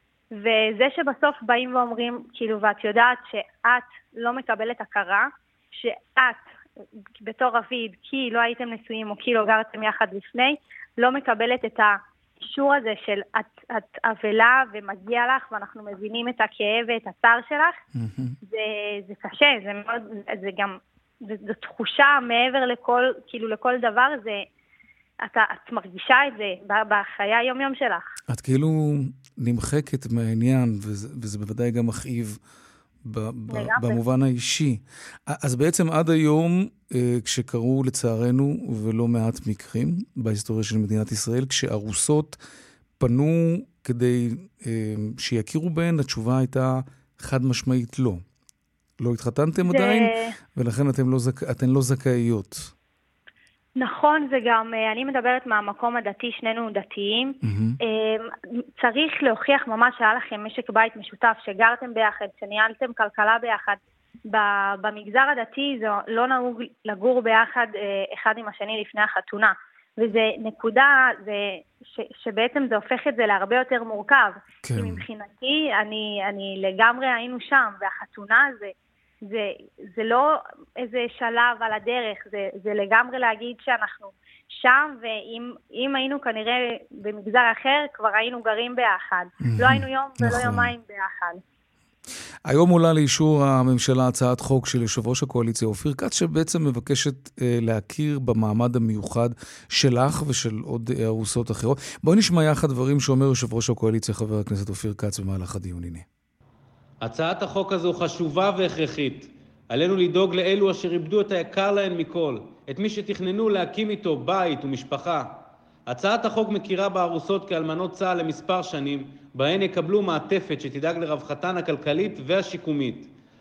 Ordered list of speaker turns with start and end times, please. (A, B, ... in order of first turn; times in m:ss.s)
0:00.3-0:06.5 A
0:07.2-0:17.8 A
0:18.0-0:18.4 B
0:18.5-0:24.5 A
0:25.2-0:28.1 A
0:28.3-0:32.4 B
0:33.0-0:42.4 B
0:33.5-0:34.0 A
0:43.0-0:48.2 B
0:49.0-0:52.7 B
0:49.7-0:50.3 A
0:53.8-1:18.7 A
0:57.4-0:57.8 B
1:14.6-1:15.0 B
1:19.2-1:31.4 A
1:29.4-1:30.7 B
1:32.5-1:46.0 B
1:47.0-1:55.3 C
1:55.9-2:03.1 C